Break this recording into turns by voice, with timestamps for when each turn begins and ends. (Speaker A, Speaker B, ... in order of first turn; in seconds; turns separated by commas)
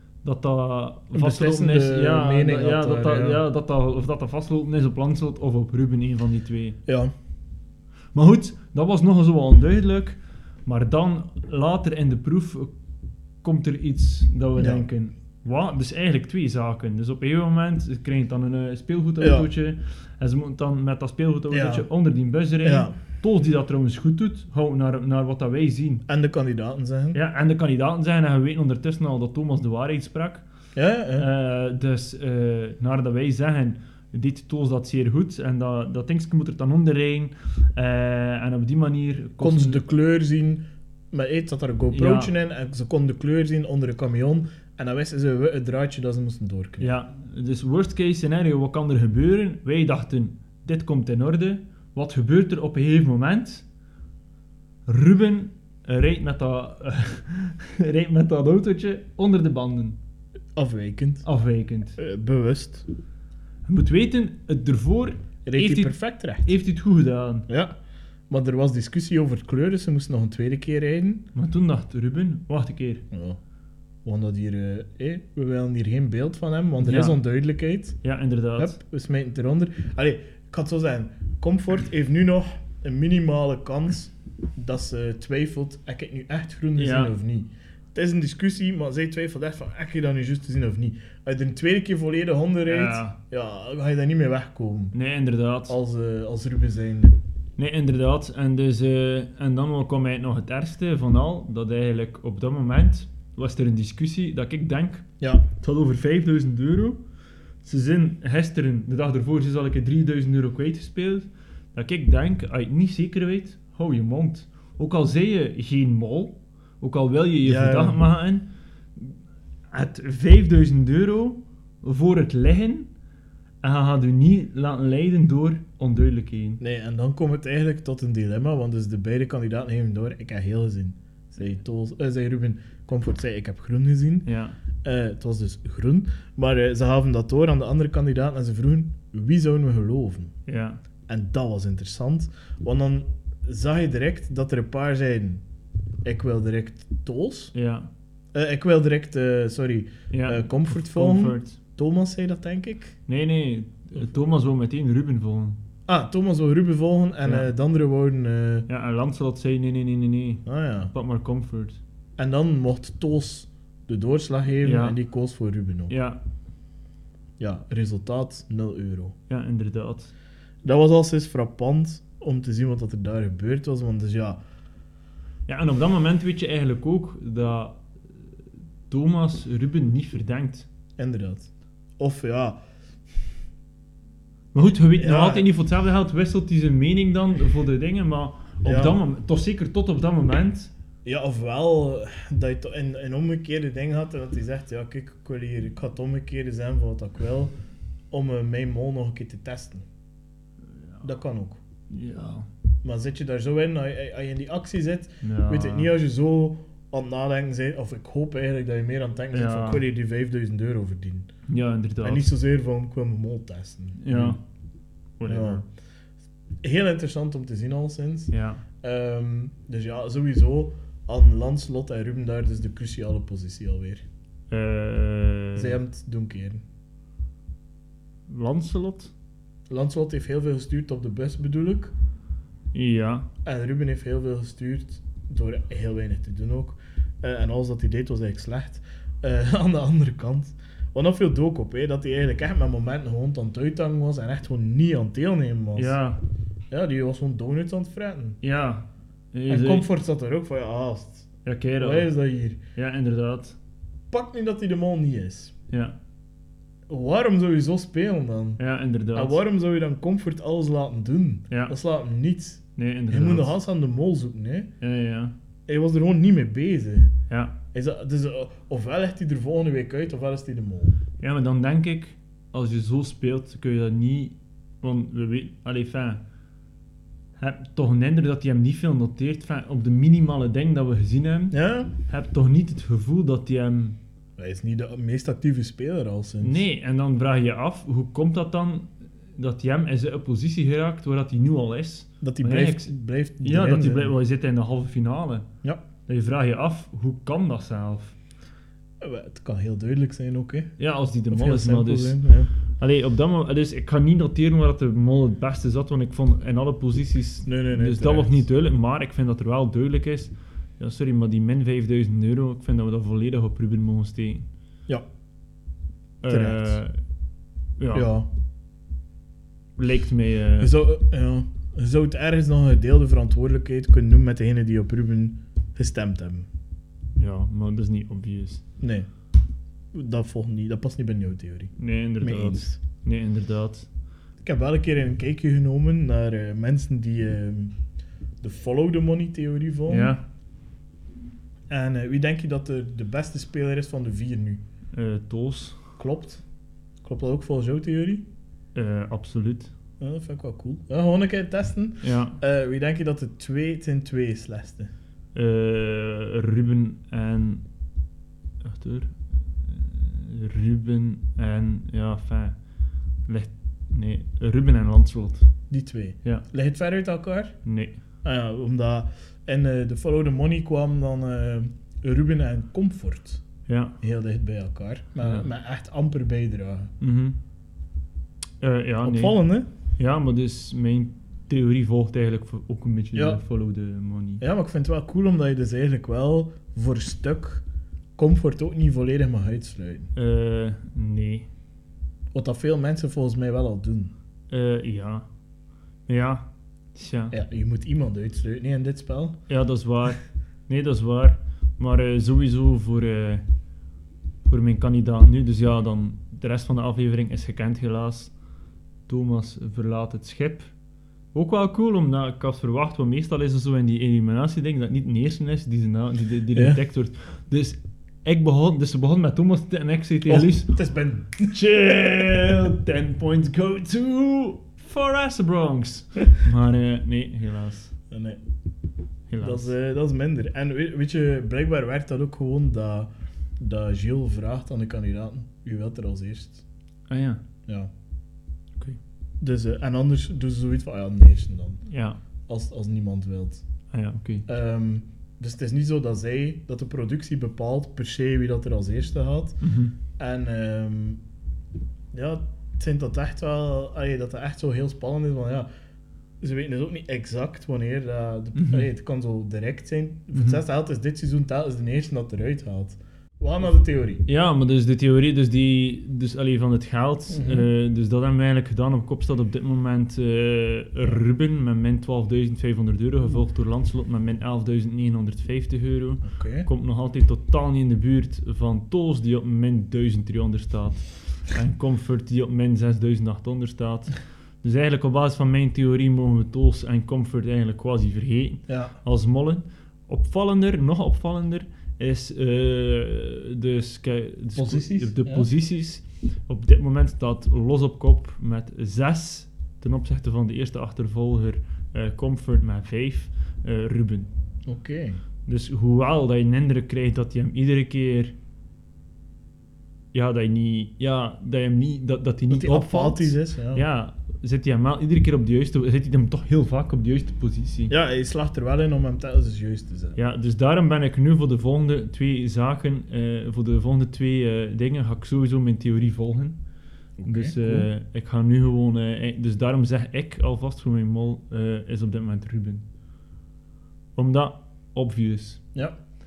Speaker A: 0.2-6.8, Speaker B: 1.1-3.4, Speaker B: 6.8-7.1, Speaker A: 8.1-12.7, Speaker A: 13.4-26.0, Speaker B: 14.6-14.9, Speaker B: 19.2-19.5, Speaker B: 21.5-21.9, Speaker B: 22.6-22.9, Speaker B: 26.1-27.2, Speaker A: 27.1-30.4, Speaker B: 30.7-31.3, Speaker A: 31.2-39.8, Speaker B: 39.4-46.9, Speaker A: 41.9-42.3, Speaker A: 46.8-53.6, Speaker A: 54.9-60.0, Speaker B: 60.5-61.2, Speaker A: 61.2-62.0, Speaker B: 62.0-62.9, Speaker A: 63.6-67.5, Speaker B: 65.4-66.5, Speaker B: 68.3-71.2, Speaker A: 71.3-73.0, Speaker B: 73.1-73.4, Speaker B: 74.0-78.0, Speaker A: 76.8-77.2, Speaker A: 78.0-78.7, Speaker B: 78.6-94.9, Speaker A: 86.8-87.1, Speaker A: 92.7-93.2, Speaker A: 94.9-95.8, Speaker B: 95.7-97.2, Speaker A: 97.6-107.0, Speaker B: 105.2-105.5, Speaker A: 107.6-119.2, Speaker B: 117.4-118.0, Speaker A: 119.7-122.9, Speaker A: 123.6-126.6, Speaker B: 126.6-134.3, Speaker A: 134.2-134.6, Speaker B: 134.8-140.3, Speaker A: 140.4-140.8, Speaker B: 141.1-145.4, Speaker B: 146.0-147.5, Speaker A: 147.5-147.9, Speaker B: 148.3-153.0, Speaker A: 150.1-151.6, Speaker A: 153.1-155.6, Speaker B: 155.9-158.7, Speaker A: 157.2-157.5, Speaker A: 158.7-161.8, Speaker B: 160.4-160.9, Speaker B: 162.2-165.9, Speaker A: 164.6-165.0, Speaker A: 165.9-166.2, Speaker B: 167.4-169.1, Speaker A: 169.3-170.1, Speaker B: 170.6-174.4, Speaker A: 175.5-177.8, Speaker A: 178.9-180.7, Speaker B: 181.0-182.6, Speaker A: 184.5-190.7, Speaker B: 185.0-185.5, Speaker B: 188.6-189.0, Speaker B: 191.0-197.5, Speaker B: 198.1-199.8, Speaker B: 201.0-201.6, Speaker A: 201.9-202.5, Speaker B: 202.8-211.3, Speaker A: 205.2-205.9, Speaker A: 209.3-209.8, Speaker A: 211.5-212.3, Speaker B: 212.0-214.4, Speaker A: 214.0-214.4, Speaker A: 215.2-215.6, Speaker B: 215.3-215.7, Speaker B: 216.6-224.0, Speaker A: 218.3-218.6, Speaker A: 224.5-225.8, Speaker B: 225.5-226.6, Speaker A: 228.3-229.1, Speaker B: 229.7-231.9, Speaker A: 232.7-233.3, Speaker B: 233.4-246.0, Speaker A: 245.7-246.2, Speaker B: 246.7-248.4, Speaker A: 248.4-249.9, Speaker B: 249.5-251.3, Speaker A: 251.4-252.1, Speaker B: 251.8-252.6, Speaker A: 252.8-253.6, Speaker B: 254.1-255.5, Speaker A: 255.7-255.9, Speaker B: 256.9-258.6, Speaker A: 258.6-259.4, Speaker B: 259.1-264.7, Speaker A: 262.8-263.5, Speaker A: 264.8-265.3, Speaker B: 265.7-267.1, Speaker A: 267.3-267.6, Speaker B: 267.7-271.0, Speaker A: 271.2-276.2, Speaker A: 277.4-284.0, Speaker B: 281.5-281.9, Speaker B: 284.4-286.6, Speaker A: 286.4-292.9, Speaker B: 292.2-294.1, Speaker A: 293.4-295.4, Speaker A: 296.1-298.1, Speaker B: 299.0-300.7, Speaker A: 300.8-302.2, Speaker B: 301.3-302.5, Speaker A: 302.8-314.4, Speaker B: 307.4-308.4, Speaker A: 316.2-316.9, Speaker B: 316.3-316.8, Speaker A: 317.8-318.1, Speaker B: 317.9-318.3, Speaker A: 319.8-320.7, Speaker B: 320.6-326.5, Speaker A: 327.1-328.6, Speaker B: 328.8-329.1, Speaker B: 329.9-332.8, Speaker A: 331.8-333.9, Speaker B: 334.4-337.7, Speaker B: 338.4-340.1, Speaker A: 339.9-340.2, Speaker B: 341.7-344.6, Speaker A: 344.9-345.8, Speaker B: 346.0-346.4, Speaker B: 347.0-348.2, Speaker A: 348.7-349.7, Speaker B: 350.0-354.9, Speaker A: 352.0-352.4, Speaker A: 355.3-357.6, Speaker A: 358.6-362.6, Speaker A: 363.2-365.5, Speaker B: 365.7-367.6, Speaker A: 367.6-368.0, Speaker B: 368.2-373.4, Speaker A: 373.7-373.9, Speaker B: 374.0-376.9, Speaker A: 377.0-377.4, Speaker A: 378.6-379.4, Speaker B: 379.0-379.7, Speaker A: 380.0-384.4, Speaker B: 383.1-383.4, Speaker B: 384.4-387.6, Speaker B: 388.1-390.1, Speaker A: 390.1-391.5, Speaker B: 392.3-394.1, Speaker A: 394.5-395.3, Speaker A: 396.1-397.3, Speaker B: 397.3-399.4, Speaker A: 399.5-403.4, Speaker A: 404.4-408.3, Speaker A: 409.1-410.7, Speaker A: 411.3-420.8, Speaker B: 416.5-416.8, Speaker B: 420.3-421.6, Speaker A: 421.4-427.9, Speaker B: 428.1-428.4, Speaker A: 429.3-429.7, Speaker B: 429.4-436.6, Speaker A: 437.1-437.4, Speaker B: 439.4-441.8, Speaker A: 441.9-442.2, Speaker B: 442.5-443.6, Speaker A: 443.9-444.4, Speaker B: 444.4-449.6, Speaker A: 449.6-449.9, Speaker B: 450.2-451.2, Speaker B: 452.1-455.7, Speaker B: 456.4-464.2, Speaker A: 458.5-458.9, Speaker A: 460.3-460.6, Speaker A: 464.2-504.3, Speaker B: 467.3-467.7, Speaker B: 476.2-476.7, Speaker B: 488.7-488.9, Speaker B: 494.5-495.5, Speaker B: 504.7-505.2, Speaker A: 505.4-508.3, Speaker A: 510.1-517.9, Speaker B: 512.5-513.8, Speaker B: 517.9-520.2, Speaker A: 520.2-526.6, Speaker B: 527.2-527.9, Speaker A: 527.2-532.8, Speaker A: 534.1-535.6